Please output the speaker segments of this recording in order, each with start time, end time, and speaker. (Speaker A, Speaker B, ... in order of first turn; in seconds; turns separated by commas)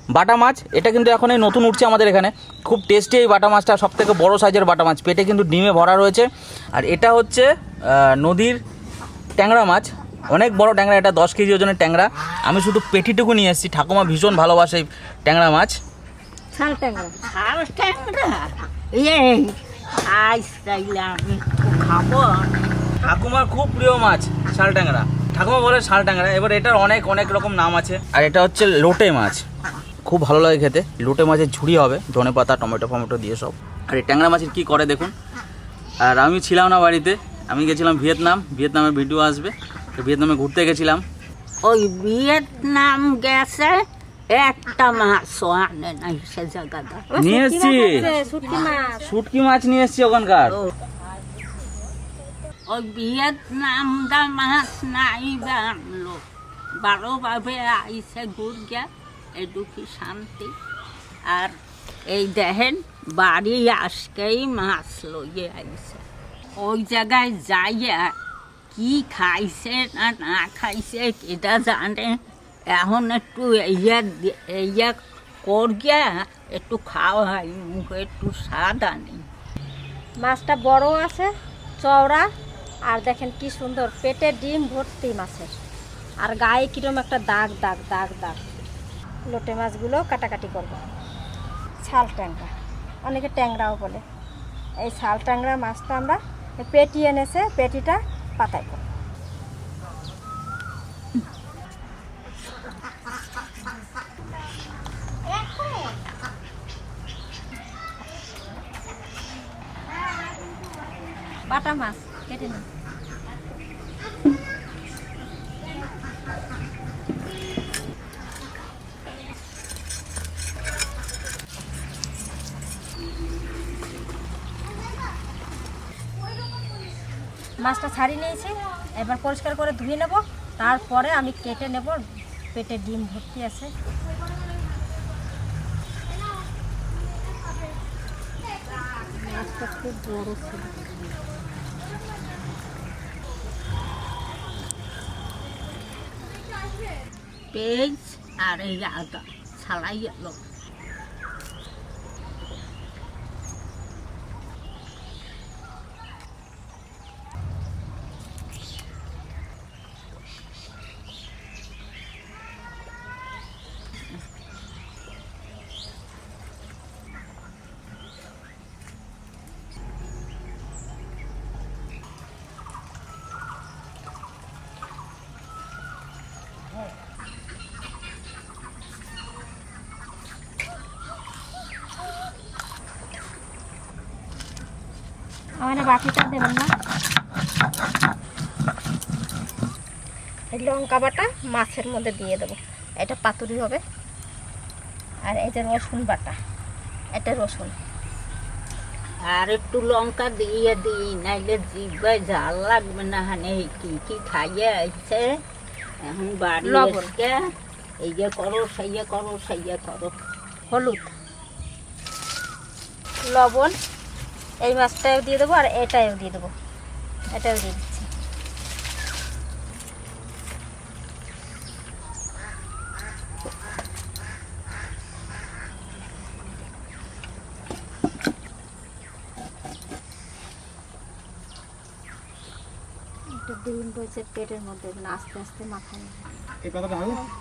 Speaker A: 0.1-8.6, Speaker A: 9.4-15.7, Speaker B: 16.5-17.1, Speaker C: 17.3-22.5, Speaker A: 23.0-29.4, Speaker A: 30.1-35.1, Speaker A: 36.0-41.0, Speaker C: 41.6-47.1, Speaker B: 47.1-49.1, Speaker A: 47.1-48.1, Speaker C: 48.1-48.9, Speaker A: 48.9-50.6, Speaker C: 52.7-56.2, Speaker C: 56.8-60.5, Speaker C: 61.3-61.5, Speaker C: 62.1-66.0, Speaker C: 66.6-68.1, Speaker C: 68.7-79.3, Speaker B: 80.2-81.3, Speaker B: 81.8-82.3, Speaker B: 82.9-85.5, Speaker B: 86.2-88.4, Speaker B: 89.3-90.8, Speaker B: 91.8-92.5, Speaker B: 93.0-94.0, Speaker B: 94.8-98.8, Speaker B: 111.5-112.7, Speaker B: 127.6-133.7, Speaker B: 139.1-140.7, Speaker C: 147.5-150.4, Speaker B: 185.6-186.7, Speaker B: 190.5-193.8, Speaker B: 195.2-196.4, Speaker B: 197.1-197.8, Speaker C: 199.3-205.3, Speaker C: 206.0-207.4, Speaker B: 206.6-207.1, Speaker C: 208.0-210.2, Speaker B: 210.7-211.1, Speaker B: 213.3-213.8, Speaker B: 214.6-216.5, Speaker B: 217.3-218.1, Speaker B: 233.4-237.3